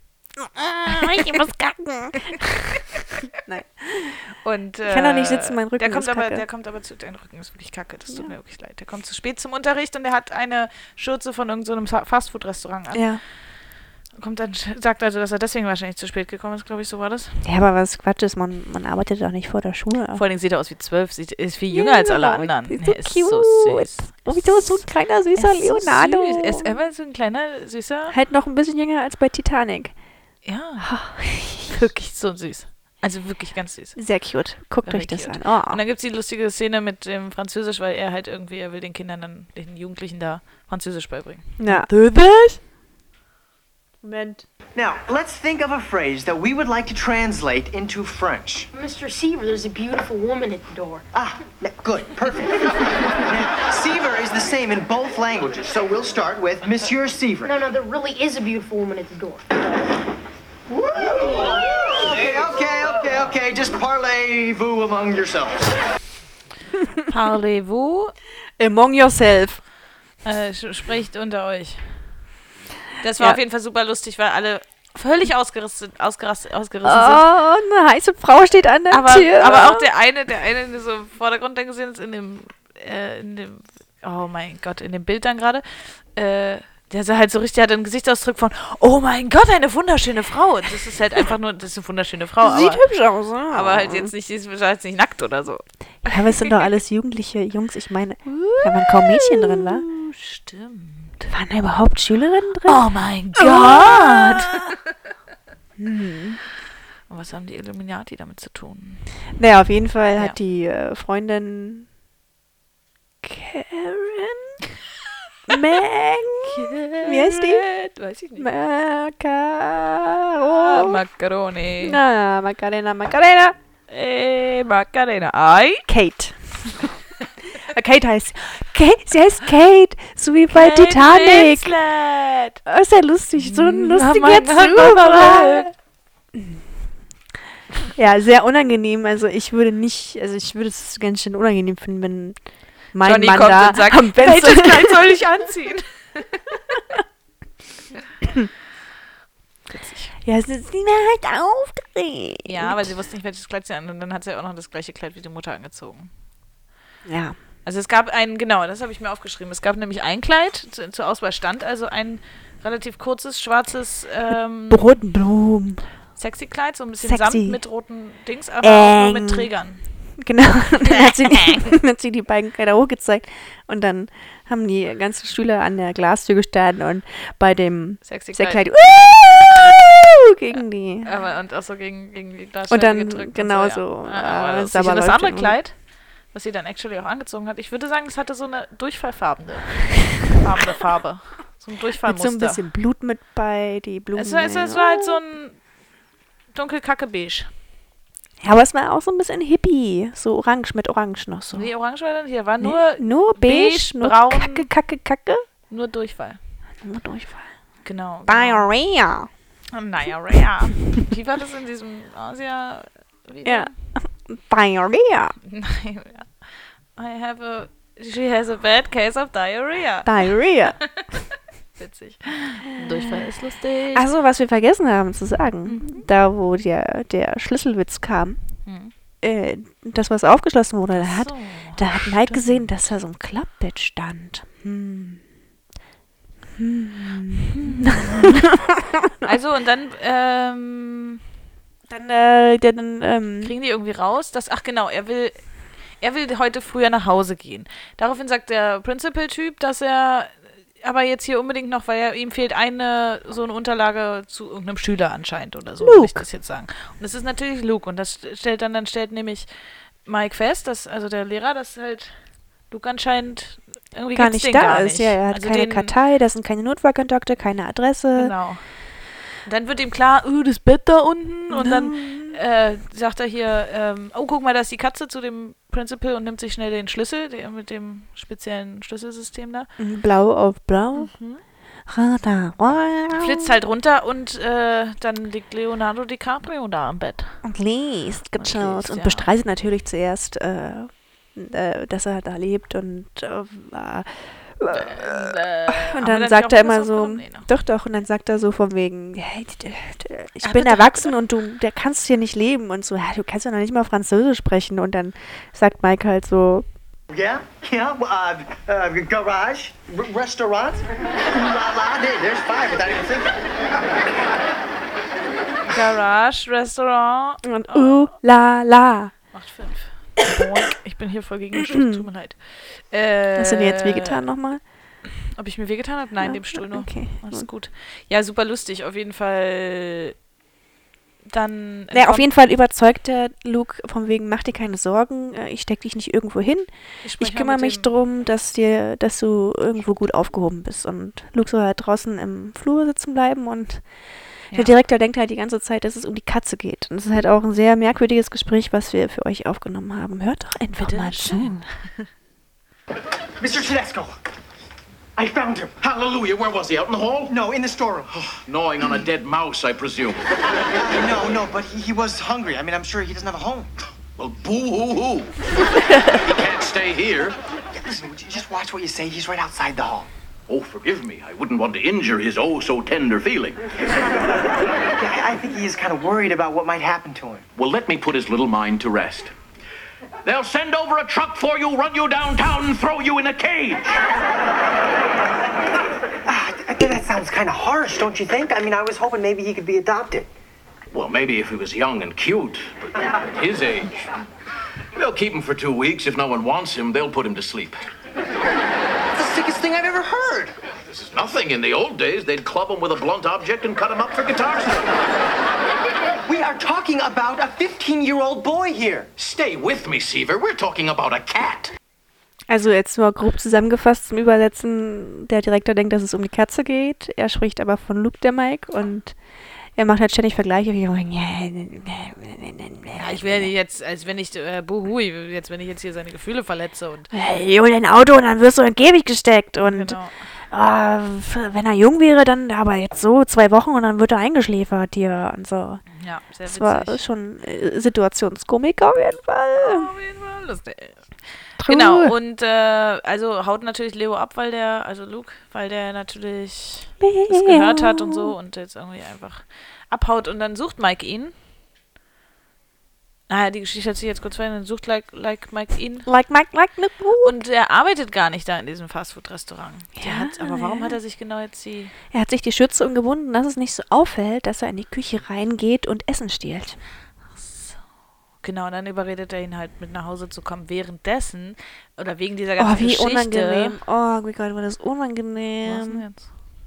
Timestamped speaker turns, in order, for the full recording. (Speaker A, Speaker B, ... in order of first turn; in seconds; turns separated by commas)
Speaker A: 0.4-4.2, Speaker B: 4.4-13.5, Speaker A: 4.8-6.4, Speaker A: 12.9-13.2, Speaker B: 14.1-17.4, Speaker A: 17.4-20.2, Speaker B: 20.1-24.8, Speaker A: 21.7-26.7, Speaker B: 25.4-28.1, Speaker A: 28.1-29.9, Speaker B: 30.4-31.0, Speaker A: 30.8-31.8, Speaker B: 31.6-34.0, Speaker A: 34.0-35.8, Speaker B: 34.8-42.1, Speaker A: 41.6-42.6, Speaker A: 44.0-44.4, Speaker C: 44.8-48.7, Speaker D: 48.7-51.1, Speaker C: 51.1-57.5, Speaker D: 57.4-59.5, Speaker C: 60.7-65.8, Speaker B: 67.1-68.1, Speaker A: 68.6-69.6, Speaker B: 70.2-72.1, Speaker B: 73.0-77.3, Speaker A: 76.8-79.9, Speaker B: 78.9-92.8, Speaker A: 92.4-94.1, Speaker B: 93.5-96.4, Speaker A: 96.0-99.9, Speaker B: 98.3-101.3, Speaker A: 101.3-104.7, Speaker B: 102.7-104.8, Speaker A: 105.8-106.4, Speaker B: 107.1-109.1, Speaker A: 109.4-111.9, Speaker A: 113.2-114.6, Speaker A: 115.5-117.7, Speaker B: 116.4-118.5, Speaker A: 118.4-121.0, Speaker B: 120.5-122.0, Speaker A: 121.8-123.6, Speaker B: 123.9-125.9, Speaker A: 125.9-126.9, Speaker A: 127.6-131.8, Speaker B: 130.5-132.6, Speaker A: 132.6-135.7, Speaker B: 133.4-135.7, Speaker A: 136.3-136.6, Speaker A: 137.9-142.4, Speaker A: 142.9-145.1, Speaker B: 143.0-146.5, Speaker B: 149.7-150.1, Speaker A: 150.2-152.9, Speaker B: 152.4-156.1, Speaker A: 157.1-157.4, Speaker B: 157.6-165.0, Speaker A: 164.7-165.8, Speaker B: 166.2-169.8, Speaker A: 167.0-167.6, Speaker A: 168.6-169.5, Speaker A: 170.2-181.1, Speaker B: 170.9-171.7, Speaker B: 178.1-178.7, Speaker B: 181.0-192.6, Speaker A: 182.7-185.6, Speaker A: 192.1-195.2, Speaker B: 194.1-195.6, Speaker B: 196.5-197.5, Speaker A: 198.4-201.7, Speaker B: 201.5-204.7, Speaker A: 202.6-205.5, Speaker B: 205.7-206.4, Speaker A: 206.8-207.5, Speaker B: 207.8-208.7, Speaker A: 208.3-209.3, Speaker B: 209.7-213.7, Speaker A: 213.4-215.3, Speaker B: 215.4-216.3, Speaker B: 217.0-221.2, Speaker A: 220.1-220.8, Speaker B: 221.8-224.1, Speaker A: 222.7-223.3, Speaker A: 223.9-228.4, Speaker B: 225.6-226.1, Speaker B: 228.6-228.9, Speaker A: 229.2-235.2, Speaker B: 230.9-232.7, Speaker A: 236.6-239.3, Speaker B: 237.6-238.4, Speaker B: 239.2-241.2, Speaker A: 241.9-243.5, Speaker B: 243.4-259.5, Speaker A: 255.8-256.2, Speaker B: 260.1-265.9, Speaker A: 264.1-268.3, Speaker B: 268.1-268.6, Speaker B: 269.4-279.7, Speaker A: 271.5-272.4, Speaker A: 279.8-281.1, Speaker B: 280.9-281.4, Speaker A: 281.9-283.6, Speaker B: 283.1-287.4, Speaker A: 287.4-306.7, Speaker B: 288.4-289.3, Speaker B: 294.7-297.5, Speaker B: 300.4-301.1, Speaker C: 307.1-313.4, Speaker B: 315.7-318.1, Speaker A: 317.4-319.1, Speaker B: 319.3-324.2, Speaker A: 321.6-322.0, Speaker A: 323.4-324.6, Speaker B: 325.3-330.1, Speaker A: 326.2-327.5, Speaker B: 331.3-332.3, Speaker A: 331.9-343.8, Speaker B: 337.0-337.9, Speaker A: 344.5-351.6, Speaker B: 350.8-352.1, Speaker C: 353.4-354.1, Speaker C: 355.1-355.9, Speaker E: 355.9-357.3, Speaker C: 357.3-358.4, Speaker E: 358.5-360.2, Speaker C: 360.7-363.9, Speaker E: 364.2-365.4, Speaker E: 366.0-367.4, Speaker C: 367.8-370.1, Speaker E: 370.5-373.6, Speaker C: 374.9-377.5, Speaker E: 377.6-379.3, Speaker E: 380.2-384.0, Speaker C: 386.3-390.3, Speaker E: 390.9-393.9, Speaker E: 394.9-397.8, Speaker C: 399.1-400.6, Speaker E: 400.9-404.9, Speaker C: 406.3-409.1, Speaker E: 409.2-411.7, Speaker A: 412.5-419.1, Speaker A: 419.8-423.5, Speaker B: 422.9-427.1, Speaker A: 427.1-430.0, Speaker B: 429.6-430.1, Speaker A: 430.5-435.8, Speaker B: 435.9-437.0, Speaker A: 436.5-439.9, Speaker B: 439.6-451.4, Speaker A: 441.6-442.1, Speaker A: 447.0-448.3, Speaker B: 453.3-456.1, Speaker A: 456.1-457.4, Speaker B: 457.2-461.9, Speaker A: 460.0-461.0, Speaker A: 462.1-466.8, Speaker B: 467.4-467.8, Speaker B: 468.4-473.8, Speaker A: 472.6-476.1, Speaker B: 475.6-476.3